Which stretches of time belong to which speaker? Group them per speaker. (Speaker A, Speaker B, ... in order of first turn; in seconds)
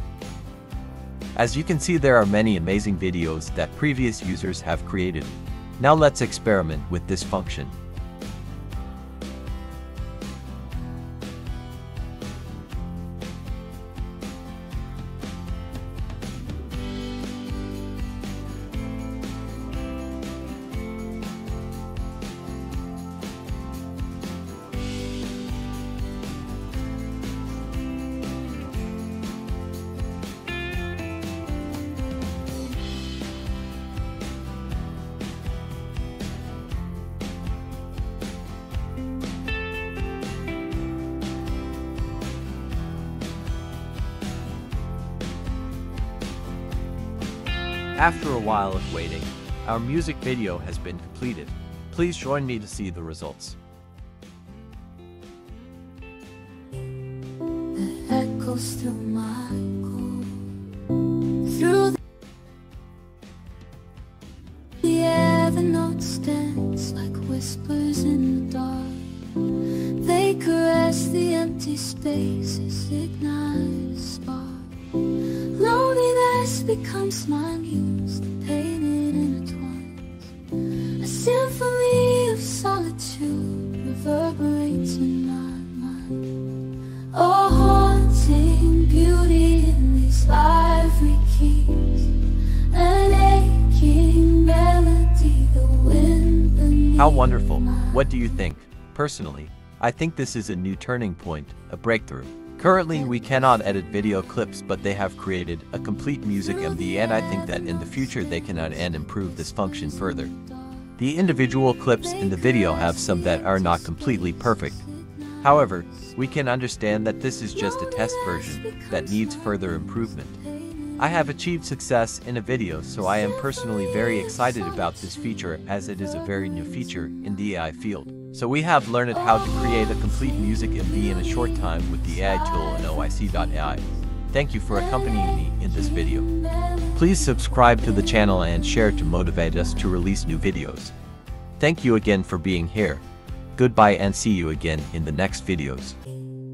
Speaker A: 1.4-7.8, 48.0-53.6, 97.0-110.3, 111.0-114.8, 115.4-120.4, 121.0-136.3, 136.9-140.9, 141.6-143.0, 143.6-146.0
Speaker B: 57.8-60.6, 61.3-62.0, 64.8-86.5, 87.1-98.1, 106.3-111.0, 112.0-116.1, 117.5-121.3, 123.0-127.7, 129.1-134.1, 134.7-139.3